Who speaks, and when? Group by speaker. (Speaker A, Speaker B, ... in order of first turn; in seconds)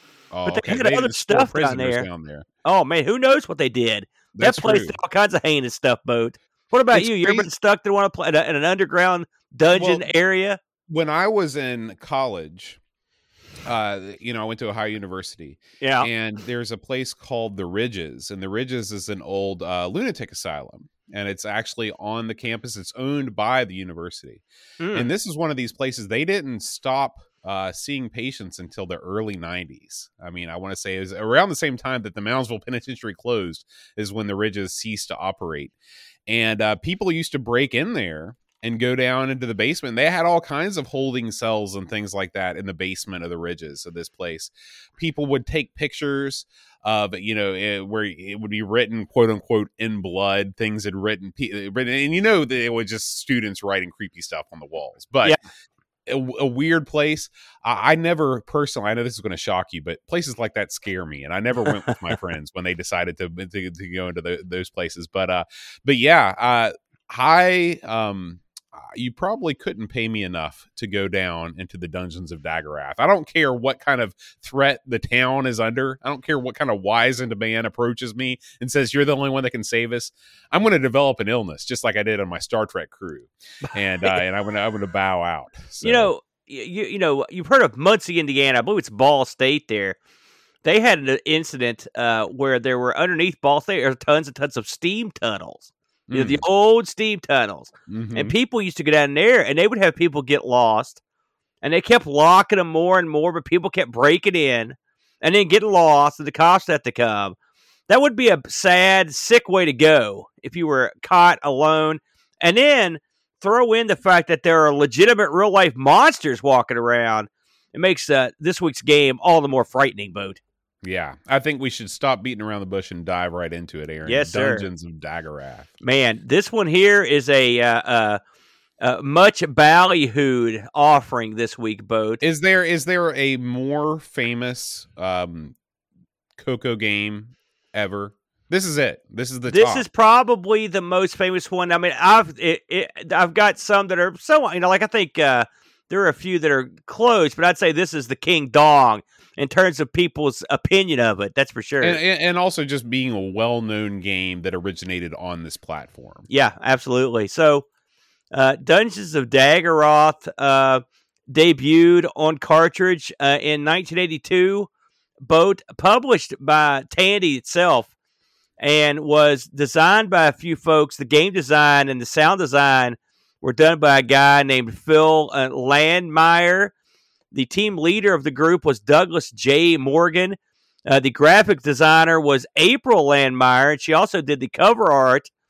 Speaker A: 0.3-2.5, 4.3-5.0, 6.9-7.5, 9.7-10.1, 10.9-12.8, 13.7-35.8, 36.3-55.4, 56.1-86.1, 96.1-96.4, 97.9-98.3, 120.8-125.7, 132.2-135.6, 136.4-139.8, 151.8-156.3
Speaker B: 0.5-2.1, 2.6-10.6, 15.8-16.1, 24.8-25.1, 83.7-84.2, 85.8-90.0, 90.6-101.0, 101.6-107.3, 107.9-120.4, 124.1-124.7, 125.8-128.2, 128.8-132.2, 139.5-152.0, 156.3-157.7, 158.3-164.7, 165.2-167.9, 168.6-176.7, 177.3-185.3